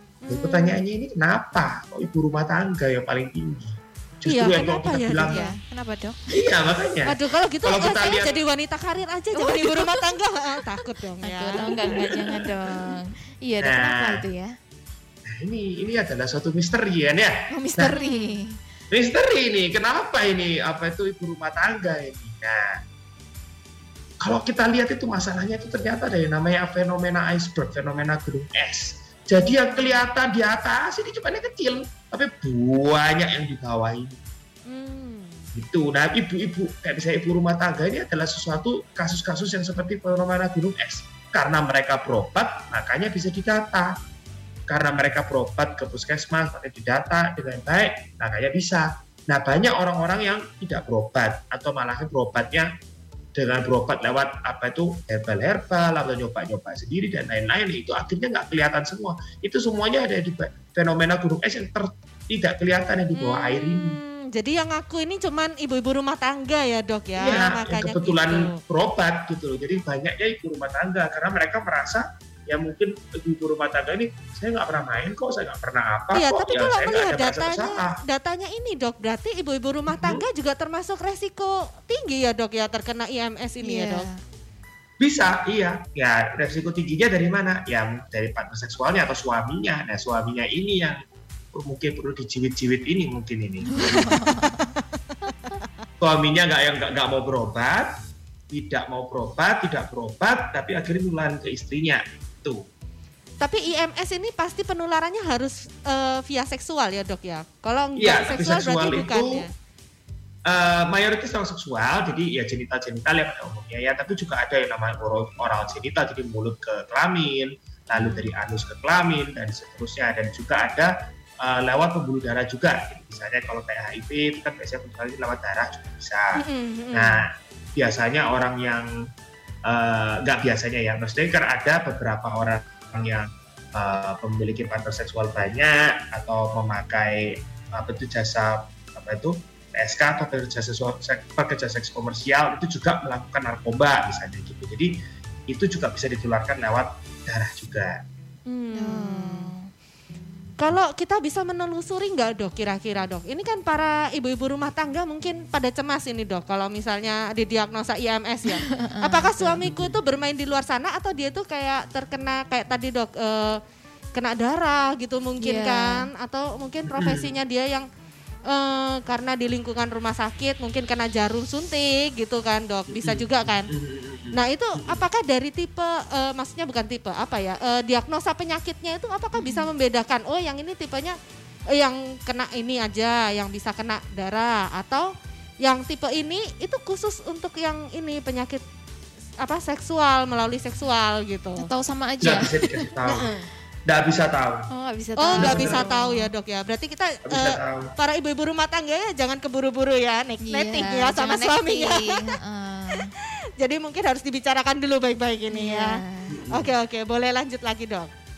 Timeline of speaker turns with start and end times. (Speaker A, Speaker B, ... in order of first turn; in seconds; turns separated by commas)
Speaker A: 0.2-0.8, Speaker B: 0.3-5.5, Speaker A: 4.3-5.5, Speaker C: 5.2-6.4, Speaker B: 6.3-8.4, Speaker A: 7.1-12.1, Speaker C: 9.3-10.2, Speaker C: 11.2-14.5, Speaker B: 11.6-12.5, Speaker B: 13.6-14.2, Speaker B: 15.3-18.0, Speaker C: 17.5-18.6, Speaker A: 18.0-18.3, Speaker B: 18.9-22.7, Speaker B: 24.2-34.2, Speaker A: 34.7-35.5, Speaker B: 35.5-44.0, Speaker B: 44.7-52.7, Speaker B: 53.3-64.0, Speaker A: 63.1-68.6, Speaker B: 67.2-78.0, Speaker A: 76.1-84.1, Speaker B: 79.9-80.2, Speaker C: 83.6-84.2, Speaker B: 85.0-91.0, Speaker B: 91.5-94.2, Speaker C: 93.7-94.7, Speaker B: 96.0-97.9, Speaker B: 98.5-102.6, Speaker A: 103.4-109.5, Speaker B: 108.0-109.5, Speaker B: 110.5-126.4, Speaker A: 117.9-118.3, Speaker A: 126.4-127.2, Speaker B: 126.9-128.9, Speaker B: 129.7-144.9, Speaker B: 145.5-148.0, Speaker A: 148.5-149.5, Speaker C: 148.8-149.7, Speaker A: 150.6-163.6, Speaker C: 158.5-159.6, Speaker B: 159.6-160.0, Speaker A: 164.2-167.9, Speaker C: 165.4-166.1, Speaker B: 166.9-167.4, Speaker A: 168.5-173.7, Speaker B: 172.9-175.0, Speaker A: 174.3-181.2, Speaker C: 179.4-179.7, Speaker A: 181.7-185.1, Speaker A: 185.6-188.6, Speaker A: 189.4-191.7, Speaker C: 191.6-192.9, Speaker B: 192.2-193.3, Speaker A: 193.0-193.5, Speaker B: 193.9-194.7, Speaker C: 194.7-196.3, Speaker A: 195.2-202.3, Speaker B: 195.4-195.9, Speaker B: 197.3-197.9, Speaker C: 200.5-203.1, Speaker A: 203.6-206.0, Speaker C: 205.5-206.4, Speaker B: 206.3-206.7, Speaker A: 206.5-208.1